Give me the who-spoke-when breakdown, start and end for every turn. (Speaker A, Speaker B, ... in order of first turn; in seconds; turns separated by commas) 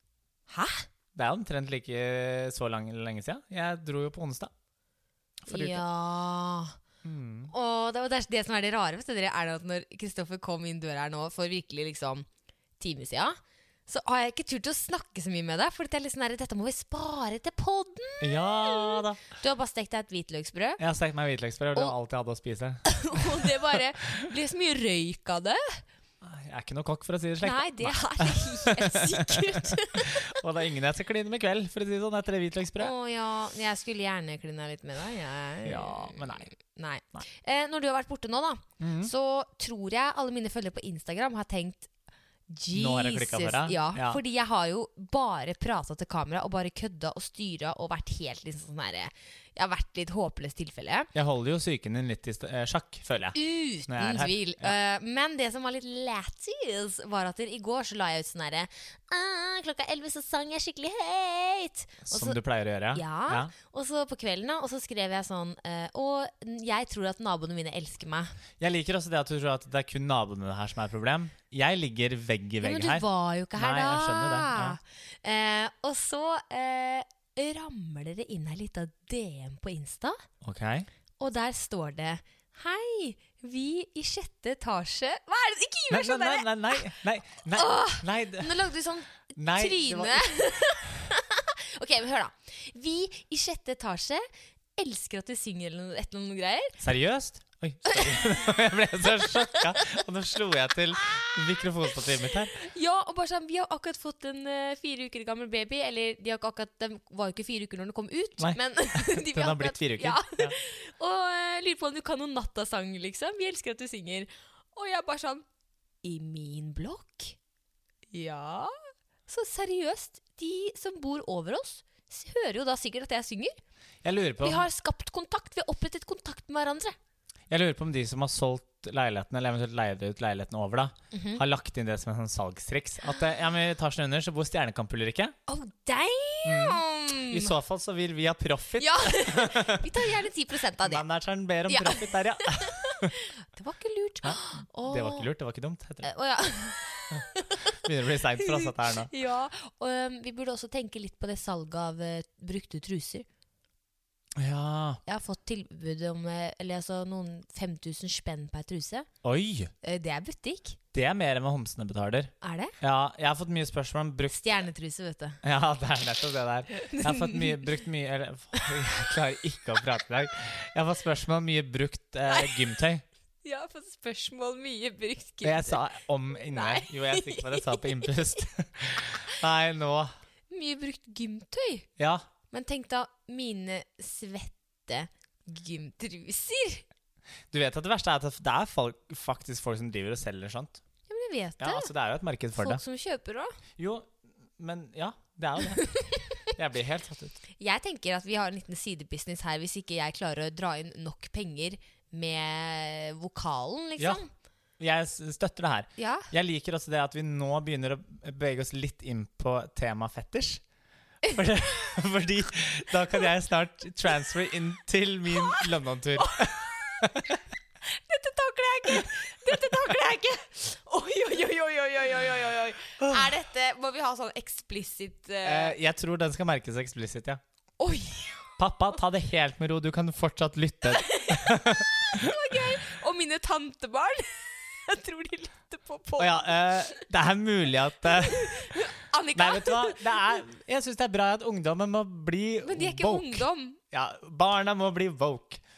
Speaker A: 0.5-0.9, Speaker B: 1.1-4.5, Speaker B: 5.5-5.8, Speaker A: 5.5-6.8, Speaker B: 7.0-7.5, Speaker A: 7.5-12.3, Speaker A: 12.8-20.8, Speaker B: 18.2-19.2, Speaker B: 20.8-23.5, Speaker A: 22.8-25.8, Speaker B: 26.2-32.9, Speaker A: 27.4-30.4, Speaker A: 32.8-41.9, Speaker B: 35.6-36.5, Speaker B: 38.8-39.1, Speaker A: 42.5-51.1, Speaker B: 42.7-44.2, Speaker B: 51.1-54.7, Speaker A: 53.3-62.4, Speaker B: 62.0-63.5, Speaker A: 62.9-68.3, Speaker B: 68.6-74.8, Speaker A: 72.6-80.2, Speaker B: 80.4-80.9, Speaker A: 81.2-87.0, Speaker B: 85.9-88.5, Speaker A: 87.5-94.2, Speaker B: 89.4-90.3, Speaker A: 94.8-96.8, Speaker B: 96.8-102.5, Speaker A: 97.8-98.5, Speaker A: 99.0-100.0, Speaker A: 101.0-115.4, Speaker B: 108.4-110.5, Speaker A: 116.0-117.4, Speaker A: 118.1-118.7, Speaker A: 119.3-123.5, Speaker B: 124.0-124.7, Speaker A: 124.4-127.0, Speaker B: 127.5-135.3, Speaker A: 131.1-131.4, Speaker A: 135.5-137.5, Speaker B: 136.4-139.9, Speaker A: 138.8-141.0, Speaker B: 140.8-143.1, Speaker A: 141.7-145.3, Speaker B: 144.2-146.1, Speaker A: 146.0-147.8, Speaker B: 147.1-149.1, Speaker A: 148.4-153.2, Speaker B: 154.3-155.0, Speaker A: 155.1-159.1, Speaker B: 159.2-159.7, Speaker A: 159.8-160.8, Speaker B: 160.9-164.5, Speaker A: 162.4-162.7, Speaker A: 164.3-165.4, Speaker B: 165.4-173.0, Speaker A: 166.8-167.7, Speaker A: 168.6-168.8, Speaker A: 172.3-172.7, Speaker A: 173.4-175.8, Speaker B: 175.4-180.1, Speaker A: 176.3-178.2, Speaker A: 180.5-181.9, Speaker B: 182.0-182.2, Speaker A: 182.5-186.8, Speaker B: 187.5-190.8, Speaker A: 191.1-191.9, Speaker B: 191.6-192.8, Speaker A: 192.6-193.6, Speaker B: 193.8-197.4, Speaker A: 195.8-196.5, Speaker A: 197.6-204.3, Speaker B: 204.8-210.6, Speaker A: 206.0-206.3, Speaker B: 211.3-217.4, Speaker A: 215.3-215.7, Speaker A: 216.2-217.0, Speaker A: 217.9-225.7, Speaker B: 223.0-223.3, Speaker B: 225.4-227.4, Speaker A: 227.8-228.6, Speaker B: 228.6-232.6, Speaker A: 230.9-237.0, Speaker B: 236.2-238.8, Speaker A: 238.1-240.4, Speaker B: 239.3-245.6, Speaker A: 242.6-243.8